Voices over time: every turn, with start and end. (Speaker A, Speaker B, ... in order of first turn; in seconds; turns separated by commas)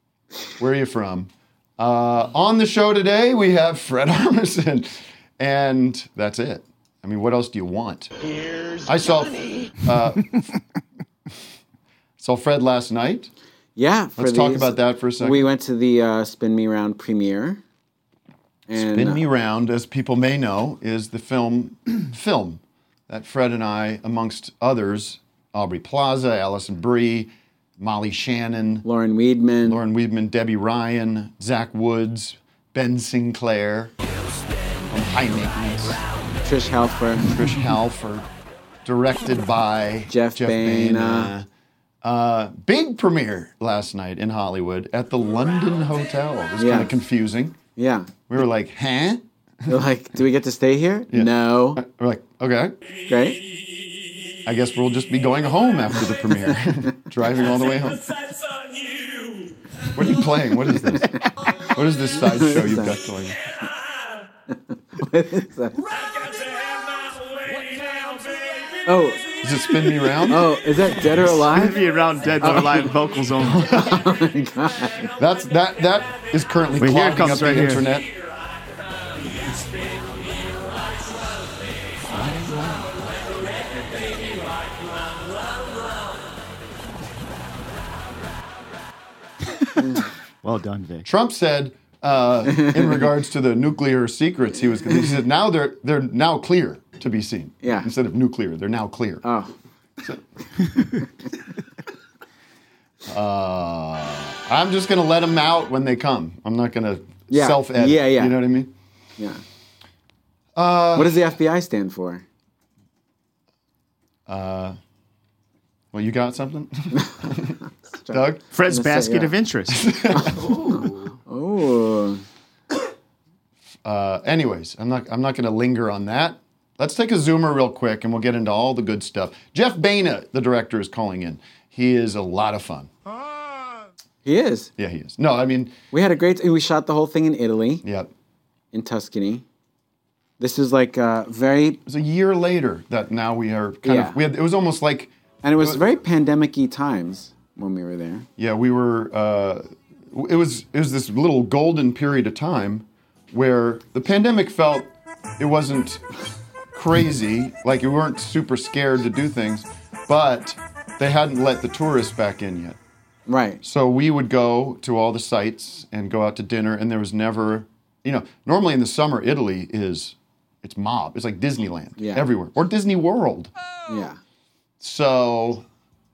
Speaker A: 0.6-8.1, Speaker A: 8.9-10.3, Speaker A: 12.2-13.3, Speaker B: 13.8-17.6, Speaker A: 14.2-15.4, Speaker B: 18.7-19.2, Speaker A: 18.7-28.9, Speaker B: 28.8-29.8, Speaker A: 29.6-33.9, Speaker A: 34.9-36.0, Speaker B: 36.4-37.4, Speaker A: 37.2-38.3, Speaker A: 38.9-41.5, Speaker B: 40.1-41.3, Speaker A: 42.0-47.6, Speaker B: 46.6-46.9, Speaker B: 47.8-48.1, Speaker A: 48.3-49.2, Speaker B: 49.7-51.8, Speaker A: 51.1-52.8, Speaker B: 53.1-53.4, Speaker A: 54.5-58.1, Speaker A: 59.9-61.2, Speaker A: 61.7-63.4, Speaker B: 62.2-63.0, Speaker B: 65.0-65.8, Speaker B: 68.9-69.2, Speaker A: 69.4-70.5, Speaker B: 70.3-71.8, Speaker C: 71.3-73.7, Speaker B: 72.4-73.0, Speaker A: 73.4-74.0, Speaker B: 73.7-75.1, Speaker A: 75.2-78.1, Speaker C: 76.8-77.9, Speaker A: 82.1-82.9, Speaker B: 89.8-90.1, Speaker C: 90.4-91.1, Speaker A: 91.0-99.2, Speaker B: 92.5-93.0, Speaker B: 97.6-97.9, Speaker B: 99.2-99.5, Speaker A: 103.0-108.7, Speaker B: 107.3-108.4, Speaker B: 109.2-109.4, Speaker A: 110.5-111.3, Speaker B: 111.0-112.2, Speaker A: 114.3-114.8, Speaker A: 115.9-117.6, Speaker B: 118.1-119.4, Speaker A: 118.1-118.4, Speaker C: 118.5-119.9, Speaker A: 119.7-120.6, Speaker B: 120.1-122.2, Speaker A: 123.8-132.9, Speaker B: 134.2-134.7, Speaker A: 134.8-135.8, Speaker B: 135.9-137.8, Speaker A: 137.8-138.1, Speaker B: 138.7-139.4, Speaker B: 140.4-141.8, Speaker A: 141.9-145.8, Speaker B: 143.8-144.2, Speaker B: 145.4-148.3, Speaker A: 148.4-156.0, Speaker A: 156.7-162.8, Speaker B: 163.3-163.6, Speaker A: 163.6-173.5, Speaker B: 172.0-172.3, Speaker B: 173.9-174.2, Speaker A: 174.8-175.7